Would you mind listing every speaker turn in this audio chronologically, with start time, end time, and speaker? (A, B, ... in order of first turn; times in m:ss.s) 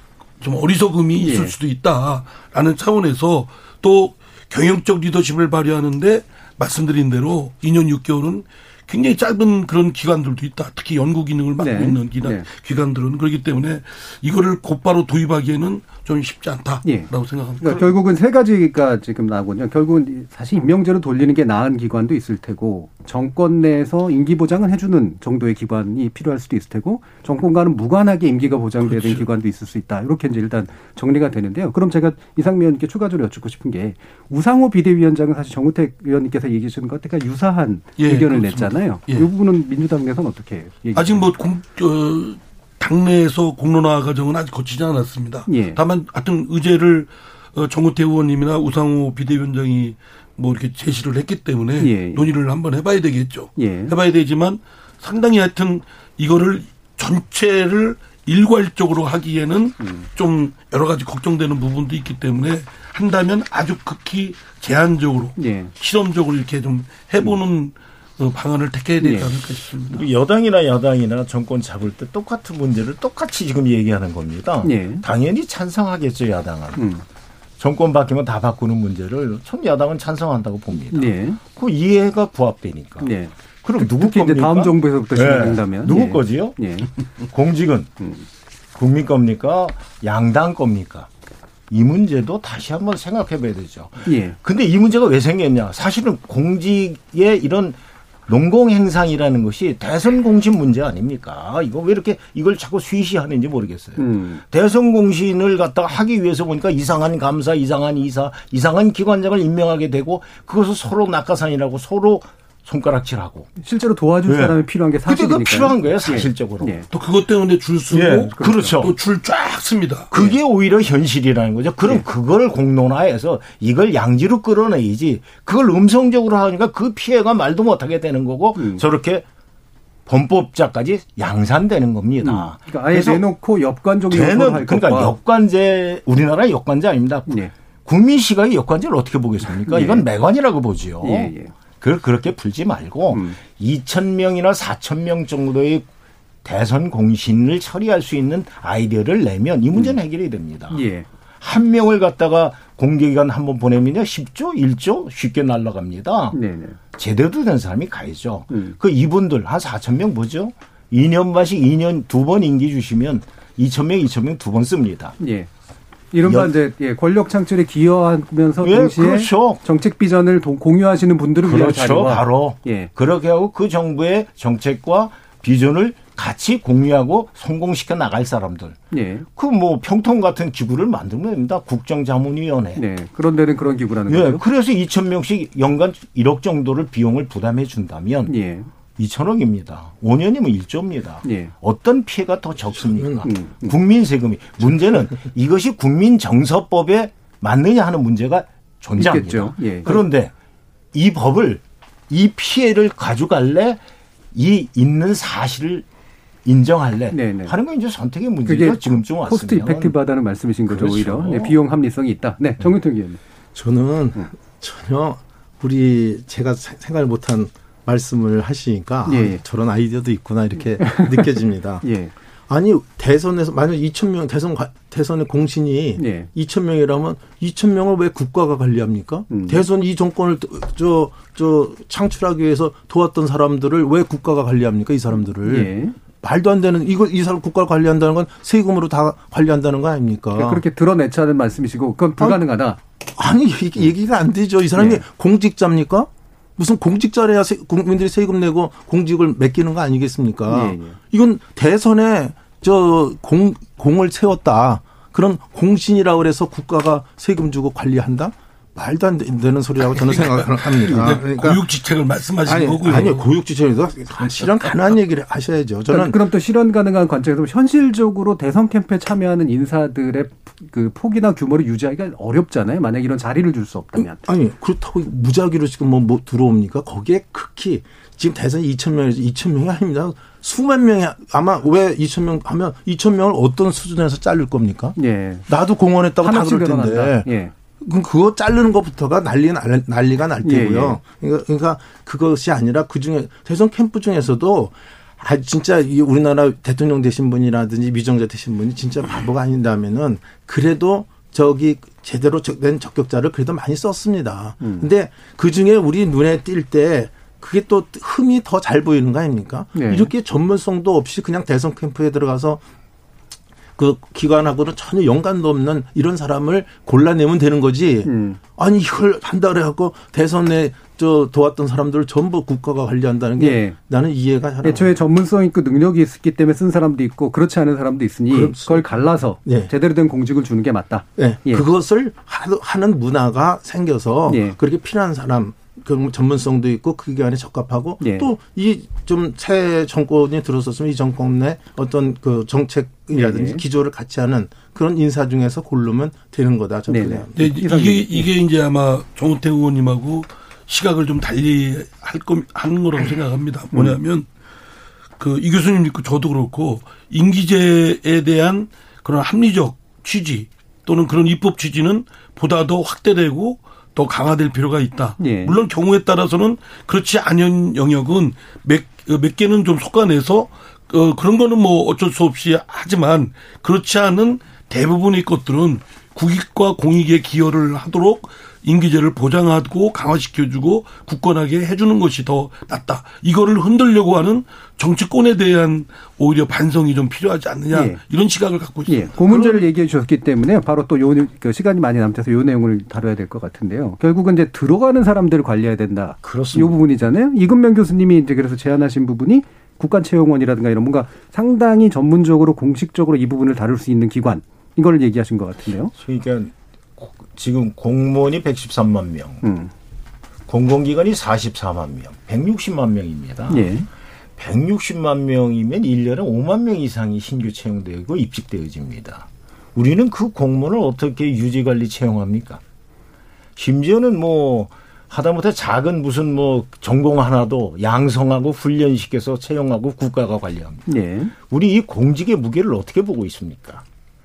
0:00.4-0:17.9 A
0:01.2-0:01.5 B
0:11.6-0:12.5 B
0:17.6-0:41.2 B
0:28.8-0:29.2 A
0:38.0-0:39.3 A
0:41.0-1:10.0 A
0:45.5-0:45.8 B
0:51.8-0:52.3 B
0:53.6-0:53.9 B
0:59.8-1:00.1 B
1:05.4-1:05.7 B
1:09.0-1:09.3 B
1:09.9-1:16.9 C
1:14.6-1:15.0 B
1:16.8-1:17.0 B
1:17.6-1:26.6 C
1:20.9-1:21.4 B
1:23.0-1:26.9 B
1:27.3-1:28.0 C
1:28.7-1:31.1 C
1:31.7-1:53.5 C
1:34.0-1:34.4 B
1:44.0-1:44.4 B
1:53.6-1:56.9 B
1:54.2-1:56.7 C
1:56.9-2:00.1 A
1:57.9-1:58.9 C
1:58.4-1:58.8 B
2:00.1-2:09.2 C
2:08.6-2:08.8 B
2:10.1-2:13.2 C
2:12.2-2:15.2 B
2:14.1-2:25.9 C
2:19.6-2:20.0 B
2:21.0-2:21.5 B
2:23.1-2:23.4 B
2:26.4-2:30.8 C
2:30.7-2:31.0 B
2:31.4-2:36.4 C
2:36.3-2:36.8 B
2:36.9-2:45.2 C
2:38.5-2:38.8 B
2:45.2-2:45.5 B
2:46.1-2:52.9 B
2:46.2-2:46.5 C
2:48.6-2:49.6 C
2:51.4-2:58.8 C
2:58.9-2:59.2 B
2:59.3-3:02.8 C
3:02.8-3:04.4 B
3:04.1-3:08.3 C
3:08.3-3:08.7 B
3:09.0-3:20.3 C
3:11.2-3:11.5 B
3:13.2-3:13.7 B
3:19.0-3:20.0 B
3:20.9-3:23.8 C
3:24.3-3:25.8 C
3:26.4-3:29.9 C
3:27.1-3:27.6 B
3:28.4-3:33.2 B
3:30.7-3:31.6 C
3:33.5-3:41.8 D
3:39.1-3:39.4 B
3:40.8-3:42.1 B
3:42.5-4:00.6 D
3:46.0-3:46.3 B
3:49.3-3:49.6 B
3:55.4-3:56.0 B
4:00.4-4:02.8 B
4:03.1-4:21.6 D
4:04.8-4:05.0 B
4:10.5-4:11.0 B
4:20.0-4:23.3 A
4:22.4-4:26.2 D
4:25.9-4:34.2 B
4:34.0-4:45.0 D
4:45.0-4:45.5 B
4:45.5-4:47.3 D
4:46.2-4:47.5 B
4:47.8-5:12.6 D
4:50.4-4:51.0 B
5:04.6-5:04.9 B
5:09.7-5:10.1 B
5:13.8-5:24.9 D
5:18.0-5:18.4 B
5:23.4-5:23.8 B
5:24.6-5:31.6 B
5:28.3-5:28.8 D
5:29.4-5:29.7 D
5:31.2-5:47.3 D
5:34.3-5:34.6 B
5:38.0-5:38.3 B
5:43.1-5:43.6 B
5:46.9-5:48.3 B
5:47.4-5:54.2 A
5:53.7-5:54.0 B
5:55.2-6:29.7 A
6:05.2-6:05.5 B
6:27.7-6:28.0 B
6:28.9-6:45.9 B
6:36.2-6:36.8 C
6:45.9-6:49.4 C
6:49.4-6:49.7 B
6:50.5-6:53.7 C
6:53.5-6:53.9 B
6:54.4-7:02.6 C
7:03.6-7:13.8 C
7:10.9-7:11.3 B